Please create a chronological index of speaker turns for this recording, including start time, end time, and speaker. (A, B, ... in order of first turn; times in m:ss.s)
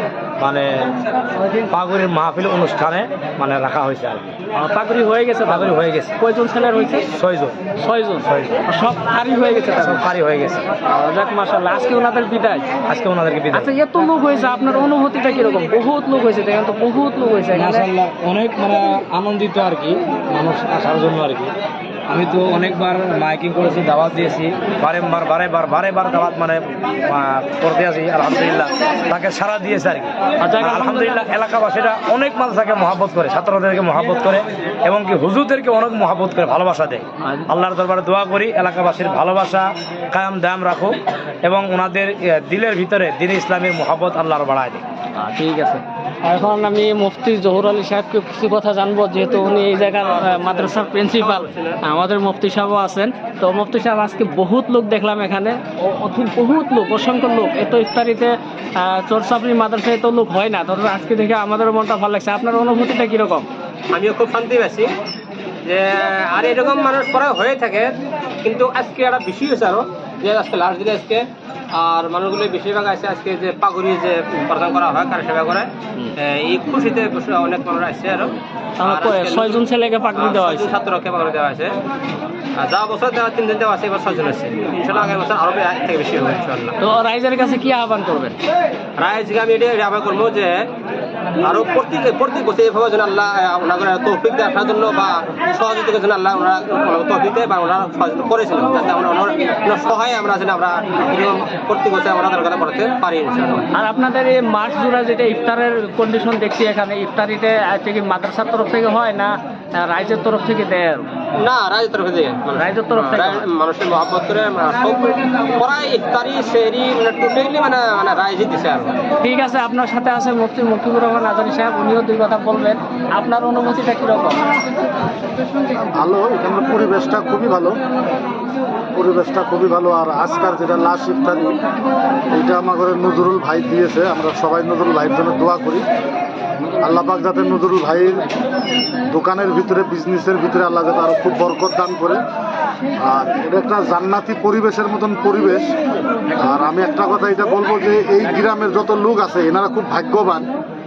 0:00.4-0:00.9 A
0:01.5-0:04.3 A
0:04.5-0:07.0 B
0:05.5-0:06.1 A
0:07.1-0:07.6 A
0:07.8-0:10.0 B
0:08.2-0:08.6 A
0:09.8-0:10.7 A
0:10.8-0:12.6 B
0:12.9-0:13.7 A
0:13.5-0:17.9 B
0:17.5-0:21.5 A
0:22.1-0:44.8 A
0:30.4-0:31.1 B
0:37.2-0:37.5 B
0:45.1-1:03.5 B
0:51.2-0:51.8 C
1:03.9-1:04.9 C
1:05.6-1:21.8 C
1:18.8-1:20.7 B
1:22.6-1:26.8 C
1:26.8-1:28.4 B
1:29.0-1:30.7 C
1:31.4-1:43.7 C
1:43.7-1:51.1 B
1:51.4-1:59.0 C
1:52.6-1:53.5 B
1:59.2-2:04.4 B
2:06.0-2:07.8 D
2:09.0-2:11.6 D
2:12.3-2:15.8 D
2:16.7-2:18.3 D
2:19.1-2:22.2 D
2:23.0-2:25.7 D
2:26.4-2:30.5 D